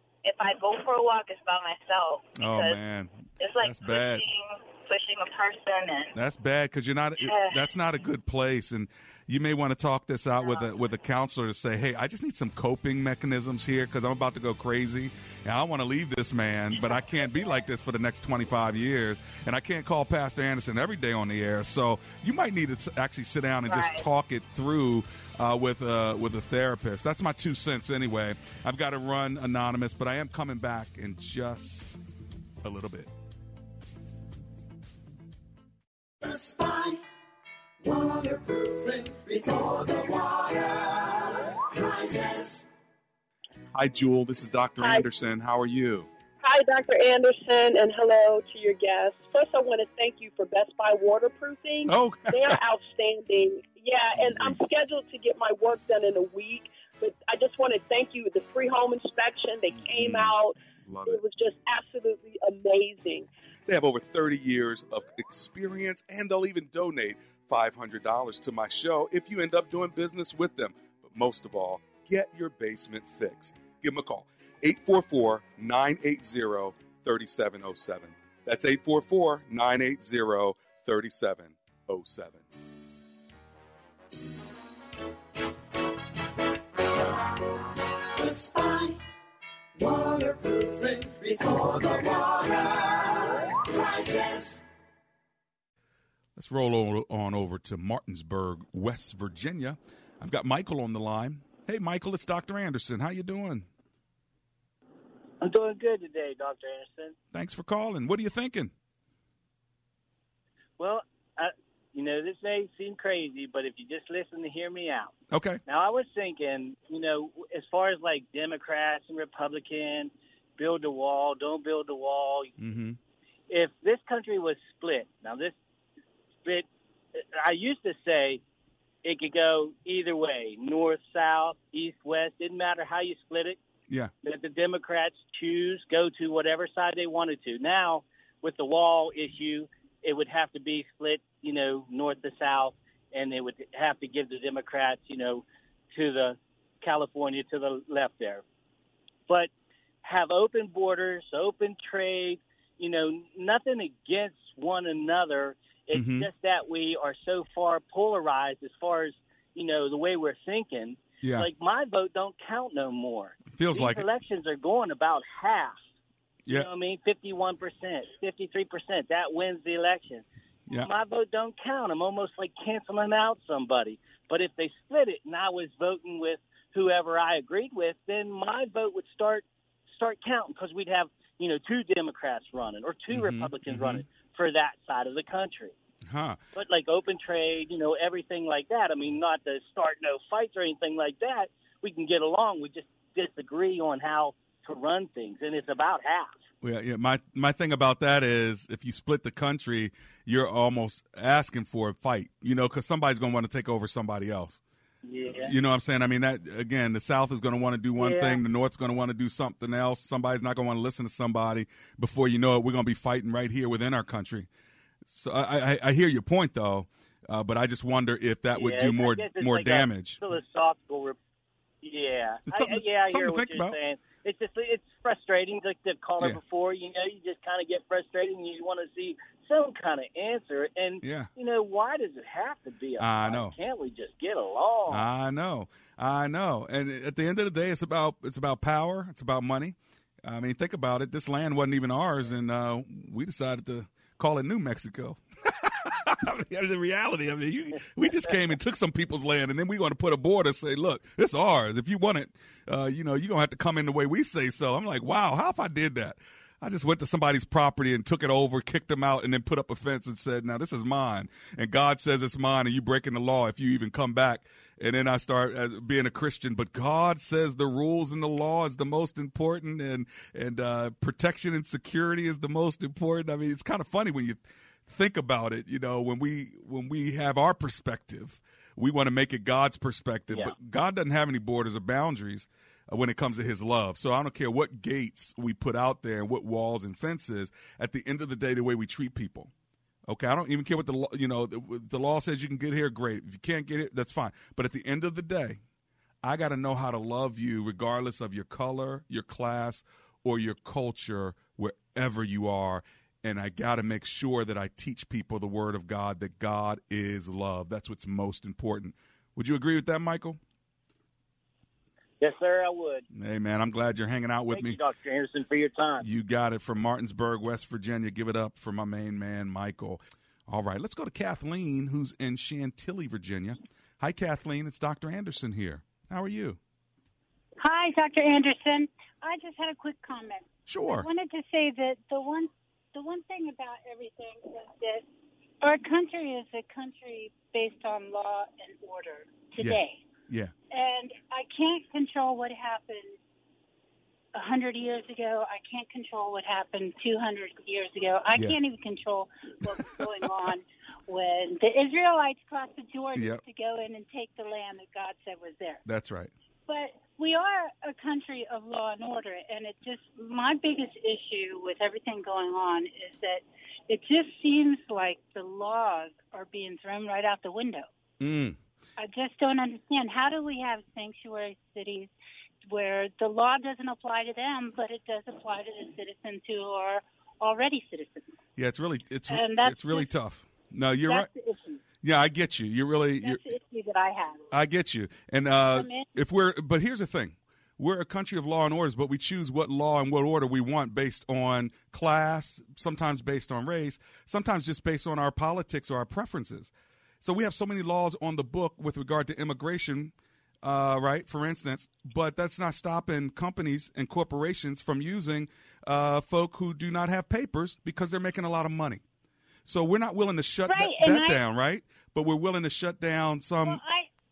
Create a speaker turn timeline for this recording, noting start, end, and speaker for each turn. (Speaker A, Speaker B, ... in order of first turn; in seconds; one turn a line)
Speaker A: 0.2-2.8
Speaker B: 2.4-4.2
Speaker A: 3.4-6.1
Speaker B: 6.2-32.0
Speaker A: 7.2-7.6
Speaker A: 10.4-10.7
Speaker A: 23.7-24.0
Speaker B: 32.6-33.1
Speaker C: 36.2-37.0
Speaker C: 37.8-42.7
Speaker B: 43.7-46.1
Speaker D: 44.8-45.1
Speaker D: 46.4-63.3
Speaker B: 51.9-52.6
Speaker B: 54.2-54.6
Speaker B: 59.8-60.3
Speaker B: 60.9-61.2
Speaker B: 63.7-82.5
Speaker C: 88.2-89.0
Speaker C: 89.8-94.6
Speaker B: 96.4-103.7
Speaker E: 105.4-107.2
Speaker B: 107.3-108.7
Speaker E: 110.8-115.1
Speaker B: 115.3-115.6
Speaker E: 115.7-122.5
Speaker B: 122.6-123.0
Speaker E: 123.5-125.5
Speaker E: 126.4-128.4
Speaker E: 129.0-133.6
Speaker E: 134.2-148.4
Speaker E: 150.0-165.8
Speaker B: 155.9-156.3
Speaker B: 161.2-161.5
Speaker B: 163.5-164.1
Speaker E: 166.5-185.8
Speaker B: 183.1-184.0
Speaker B: 186.1-186.4
Speaker E: 186.6-196.4
Speaker B: 196.6-204.6
Speaker E: 205.0-205.5
Speaker B: 205.3-214.5
Speaker E: 208.0-208.4
Speaker B: 215.1-220.2
Speaker E: 218.6-221.2
Speaker E: 221.8-235.1
Speaker B: 222.5-223.8
Speaker B: 231.0-231.3
Speaker B: 233.0-233.6
Speaker B: 234.9-289.5
Speaker B: 290.1-295.6
Speaker B: 296.2-310.4
Speaker E: 312.2-313.1
Speaker B: 313.1-314.8
Speaker E: 314.5-316.1
Speaker B: 316.0-326.6
Speaker F: 327.6-335.1
Speaker B: 330.7-331.1
Speaker F: 335.6-340.0
Speaker B: 339.6-340.5
Speaker F: 340.7-343.2
Speaker F: 344.3-355.8
Speaker B: 353.1-353.4
Speaker B: 355.9-356.3
Speaker F: 356.7-367.9
Speaker B: 368.2-368.6
Speaker F: 369.0-372.1
Speaker F: 372.7-378.4
Speaker B: 378.6-381.3
Speaker F: 379.3-380.1
Speaker F: 381.1-381.8
Speaker B: 382.0-383.4
Speaker F: 383.2-384.5
Speaker B: 384.5-409.0
Speaker F: 385.7-386.1
Speaker B: 409.6-413.8
Speaker F: 410.7-411.4
Speaker F: 413.6-414.1